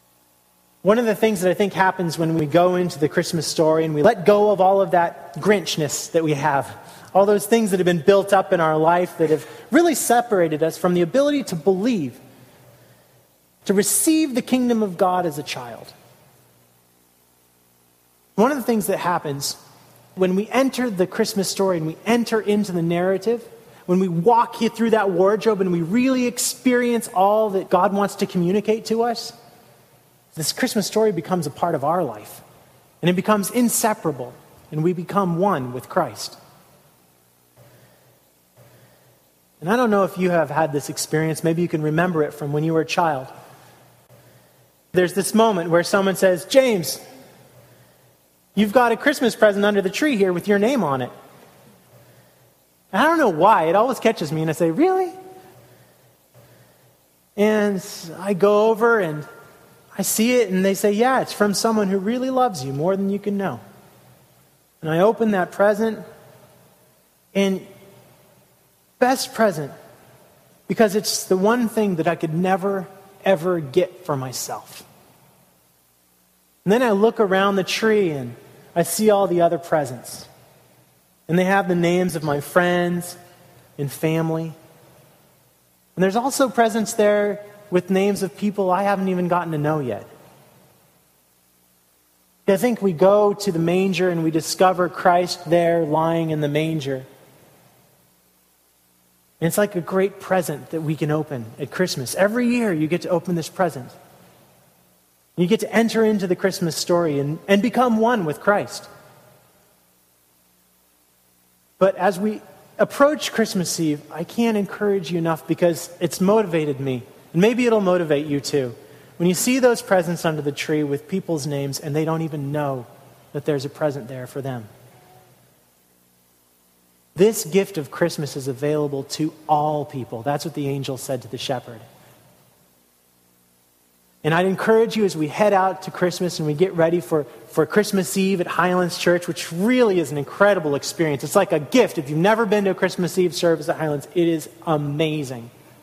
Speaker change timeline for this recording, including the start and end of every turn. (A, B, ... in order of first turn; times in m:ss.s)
0:00.8-0:12.2 A
0:13.6-0:15.9 A
0:18.4-0:19.6 A
0:20.2-0:29.3 A
0:30.3-0:32.4 A
0:33.0-0:36.4 A
0:39.6-0:43.3 A
0:44.9-0:47.0 A
0:48.6-0:51.1 A
0:52.9-0:55.1 A
0:57.4-0:59.3 A
1:00.0-1:03.6 A
1:04.8-1:06.0 A
1:07.3-1:07.6 A
1:09.0-1:09.7 A
1:10.7-1:14.8 A
1:16.6-1:20.3 A
1:21.3-1:23.2 A
1:23.8-1:24.6 A
1:26.0-1:30.1 A
1:32.4-1:37.0 A
1:39.4-1:43.9 A
1:45.4-1:48.9 A
1:51.8-2:04.7 A
2:07.2-2:11.8 A
2:14.2-2:25.5 A